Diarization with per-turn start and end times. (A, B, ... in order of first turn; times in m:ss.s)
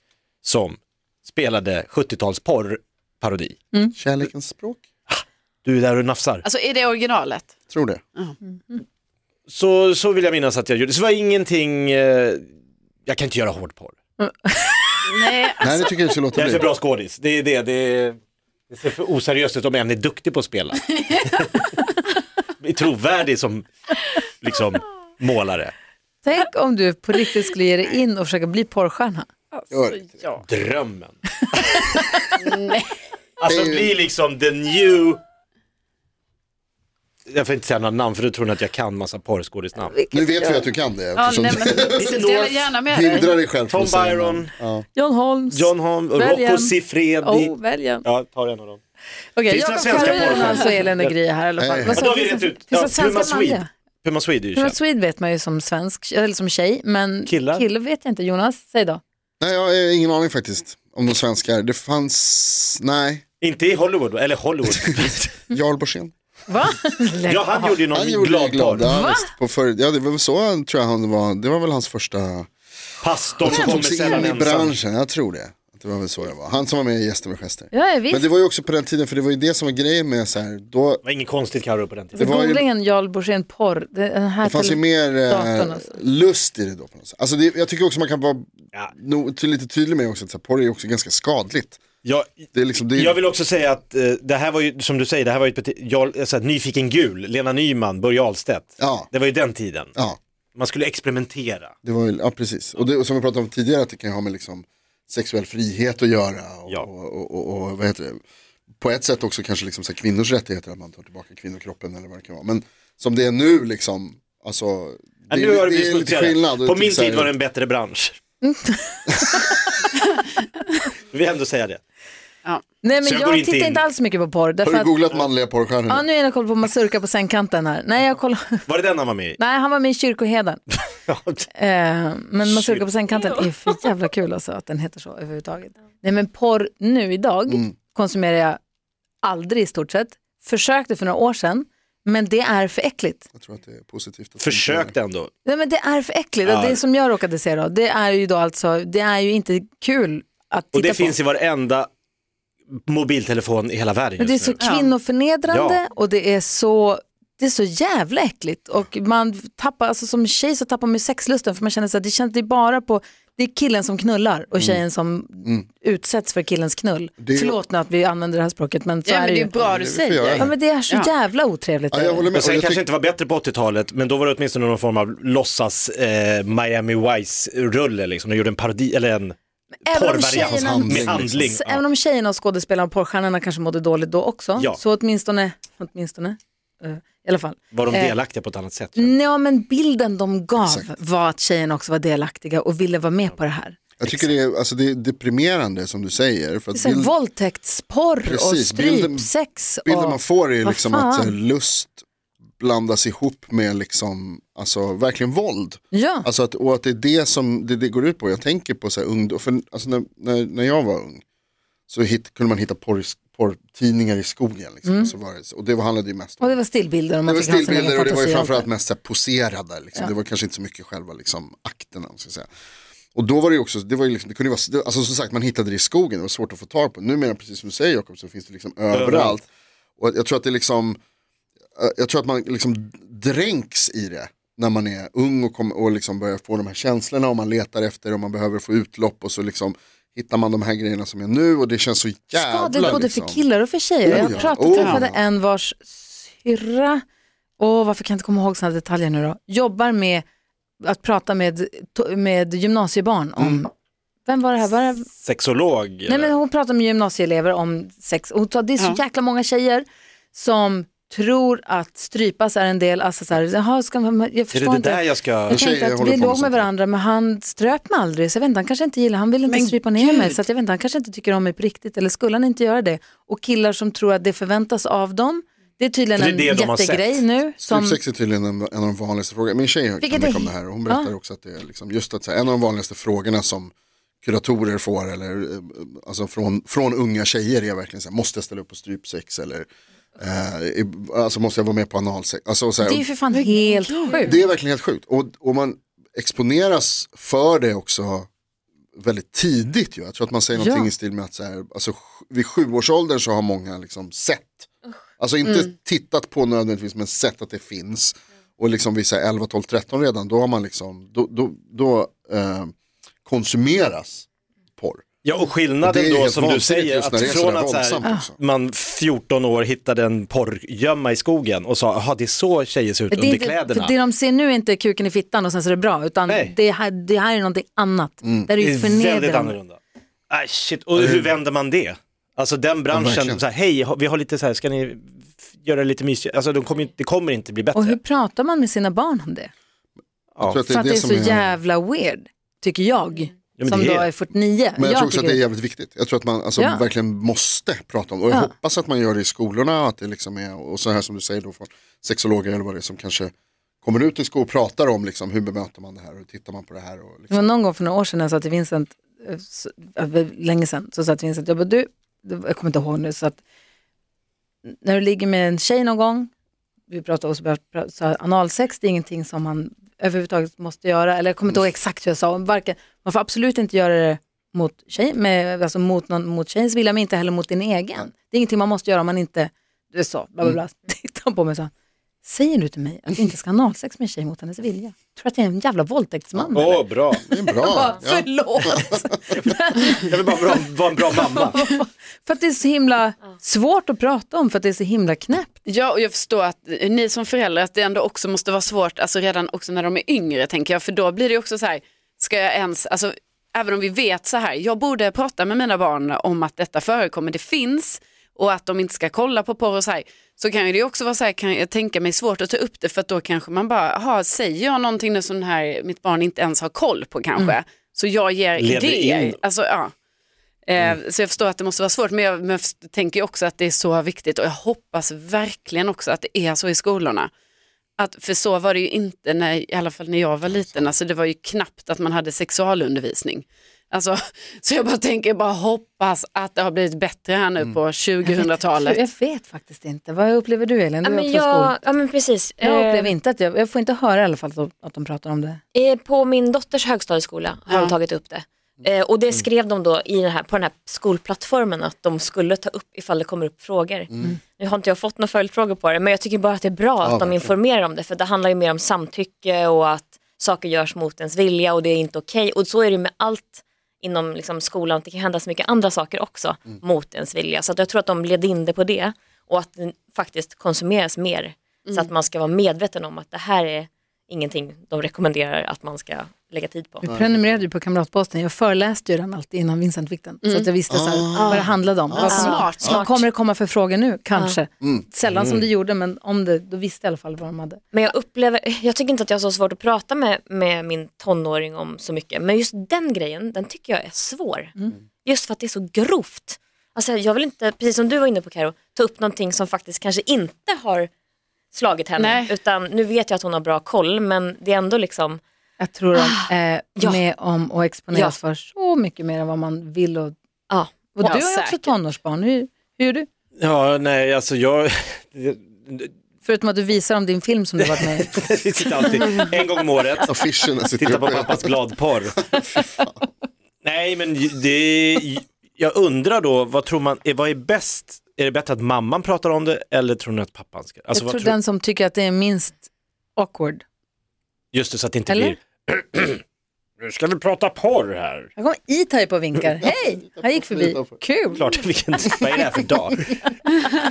0:00.4-0:03.6 A
0:04.0-0:04.8 B
0:05.1-0:06.5 A
0:06.4-0:07.5 C
0:07.7-0:08.0 B
0:09.5-0:12.5 A
0:13.1-0:14.0 A
0:14.2-0:15.1 D
0:15.0-0:15.9 C
0:15.6-0:16.7 B
0:16.4-0:18.2 A
0:18.7-0:21.7 A
0:22.6-0:23.7 A
0:24.2-0:25.7 A
0:26.2-0:29.3 D
0:29.5-0:30.4 C
0:29.7-0:30.1 B
0:30.4-0:32.3 A
0:32.3-0:33.0 C
0:33.4-0:35.2 A
0:33.5-0:34.0 B
0:37.3-0:39.9 A
0:39.8-0:40.7 D
0:40.1-0:42.1 B
0:41.2-0:43.4 C
0:42.0-0:42.7 A
0:42.9-0:44.8 B
0:43.7-0:44.6 A
0:44.9-0:48.1 D
0:45.5-0:48.8 A
0:49.4-0:53.7 D
0:49.5-0:51.2 A
0:50.0-0:50.7 C
0:51.6-0:52.1 B
0:51.9-0:54.8 A
0:54.6-0:59.0 D
0:57.3-0:57.6 A
0:59.4-1:03.2 B
1:03.4-1:05.5 A
1:04.7-1:06.1 B
1:06.5-1:07.8 D
1:07.3-1:08.9 A
1:07.9-1:12.5 B
1:08.8-1:09.3 D
1:13.0-1:14.8 A
1:13.4-1:21.0 B
1:17.7-1:18.3 D
1:21.0-1:22.3 A
1:22.2-1:22.7 B
1:22.2-1:25.9 D
1:24.4-1:31.8 B
1:32.0-1:32.3 A
1:32.5-1:33.2 B
1:32.9-1:40.0 A
1:38.8-1:39.1 B
1:40.6-1:41.8 A
1:41.8-1:48.2 B
1:48.8-1:57.3 B
1:55.3-1:58.2 A
1:58.4-1:59.6 D
2:01.1-2:01.8 A
2:02.8-2:05.0 D
2:03.0-2:03.8 A
2:04.6-2:06.1 B
2:05.9-2:08.7 D
2:08.7-2:09.4 A
2:09.4-2:10.6 D
2:11.1-2:11.5 A
2:11.5-2:18.6 D
2:12.4-2:12.9 A
2:17.5-2:17.7 B
2:19.2-2:23.3 D
2:23.3-2:25.0 B
2:24.4-2:25.3 A
2:25.4-2:31.2 D
2:26.4-2:26.8 A
2:30.8-2:31.9 A
2:32.9-2:34.7 A
2:34.2-2:49.5 D
2:34.6-2:34.9 C
2:35.5-2:35.8 A
2:44.6-2:44.8 B
2:47.2-2:47.6 B
2:49.1-2:51.1 C
2:49.6-2:50.5 B
2:50.4-2:52.3 D
2:51.9-2:52.8 B
2:52.3-2:59.4 A
2:59.9-3:01.8 A
2:59.9-3:08.2 D
3:00.3-3:01.5 B
3:07.7-3:09.2 A
3:09.0-3:14.3 D
3:10.6-3:10.9 B
3:14.0-3:17.1 B
3:16.7-3:21.3 D
3:18.2-3:19.3 B
3:19.8-3:22.0 B
3:22.6-3:31.2 B
3:25.9-3:26.3 D
3:31.9-3:36.6 B
3:36.4-3:38.7 D
3:37.2-3:42.5 B
3:43.2-3:49.4 B
3:48.9-3:49.4 A
3:50.0-3:51.0 B
3:51.8-4:03.4 B
4:02.3-4:07.0 D
4:04.1-4:05.2 B
4:04.1-4:05.0 C
4:07.6-4:10.2 D
4:10.8-4:13.7 D
4:14.3-4:15.1 D
4:15.2-4:16.3 A
4:16.1-4:38.0 D
4:24.5-4:25.6 A
4:25.5-4:26.7 B
4:29.5-4:30.4 C
4:36.2-4:37.2 A
4:37.6-4:43.7 B
4:40.0-4:41.1 D
4:44.2-4:49.7 B
4:50.2-4:53.1 B
4:52.8-4:54.4 D
4:53.3-4:54.4 C
4:54.2-4:58.3 B
4:59.0-5:12.7 B
5:00.6-5:00.9 D
5:13.3-5:15.1 B
5:15.2-5:23.9 A
5:15.8-5:18.4 B
5:23.1-5:29.6 D
5:26.3-5:26.5 A
5:28.2-5:28.5 B
5:28.6-5:29.8 A
5:30.3-5:38.0 A
5:31.0-5:31.3 B
5:32.9-5:33.4 B
5:37.7-5:39.5 D
5:40.4-5:41.6 B
5:40.6-5:45.4 D
5:43.6-5:44.1 A
5:44.8-5:53.3 B
5:46.6-5:46.8 D
5:53.8-5:57.5 B
5:57.3-6:03.4 D
6:04.7-6:06.3 D
6:06.9-6:21.7 D
6:22.2-6:35.6 D
6:26.4-6:29.0 B
6:26.5-6:27.2 A
6:29.3-6:31.7 A
6:35.7-6:59.9 C
6:58.6-6:59.4 A
7:00.7-7:07.3 C
7:08.0-7:19.0 C
7:10.5-7:10.9 B
7:18.2-7:21.8 D
7:21.0-7:23.1 E
7:22.6-7:25.6 D
7:25.7-7:57.1 E
7:27.7-7:28.0 C
7:34.1-7:34.4 B
7:37.0-7:37.5 B
7:51.9-7:52.1 C
7:57.0-8:07.8 D
7:57.1-7:57.6 B
8:00.9-8:03.0 B
8:01.4-8:01.6 E
8:02.2-8:03.2 C
8:02.3-8:03.2 E
8:05.3-8:05.6 A
8:07.9-8:21.1 E
8:21.7-8:25.4 E
8:22.2-8:22.6 C
8:25.8-8:30.3 D
8:26.2-8:27.2 E
8:30.7-8:31.2 E
8:31.1-8:33.3 D
8:31.2-8:31.9 C
8:33.6-8:36.1 A
8:36.4-8:38.4 D
8:37.8-8:40.3 A
8:40.3-8:41.7 B
8:41.0-8:42.6 A
8:42.6-8:43.1 B
8:43.8-8:51.5 A
8:51.1-8:53.8 D
8:54.7-8:56.4 A
8:55.3-8:55.6 D
8:57.0-8:58.5 A
8:58.6-9:01.7 D
8:59.8-9:01.2 B
9:01.5-9:03.7 A